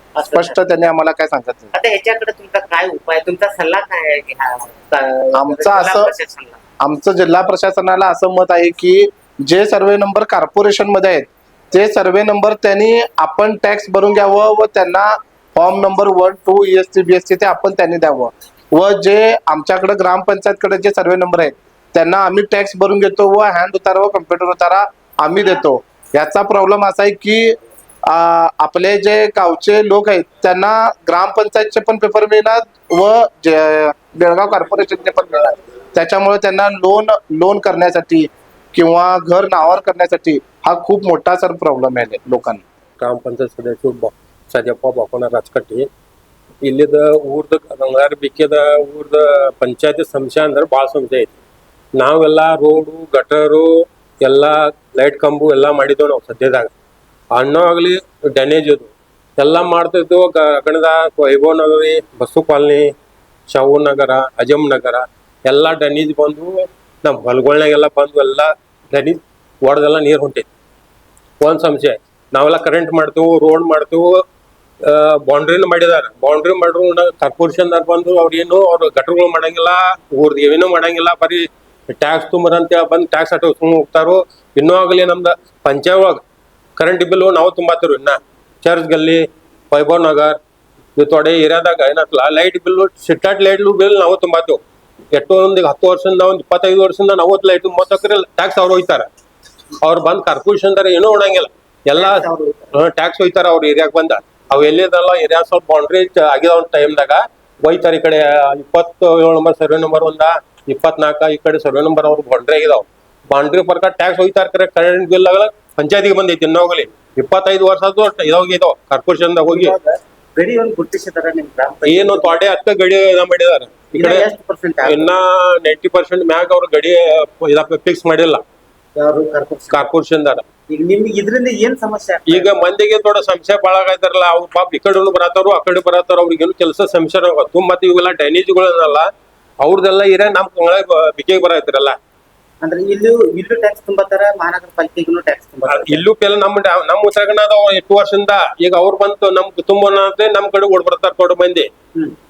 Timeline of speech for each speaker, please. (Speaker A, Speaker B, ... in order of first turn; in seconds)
Speaker A: 0.1-0.6, 1.7-6.6, 101.9-102.7, 119.4-122.4, 123.9-125.1, 129.0-129.9, 130.7-132.6, 142.6-146.0
Speaker B: 0.2-1.7, 5.3-6.1, 6.8-27.6, 28.1-42.6
Speaker C: 43.0-45.9, 46.6-51.3, 52.0-53.7, 54.2-56.7, 57.3-62.9, 63.5-70.5, 71.4-74.2, 74.9-86.2, 86.8-90.4, 91.0-94.6, 95.1-99.1, 99.8-119.7, 121.8-124.3, 124.8-128.4, 129.7-130.4, 132.3-139.1, 139.6-142.0, 145.7-151.7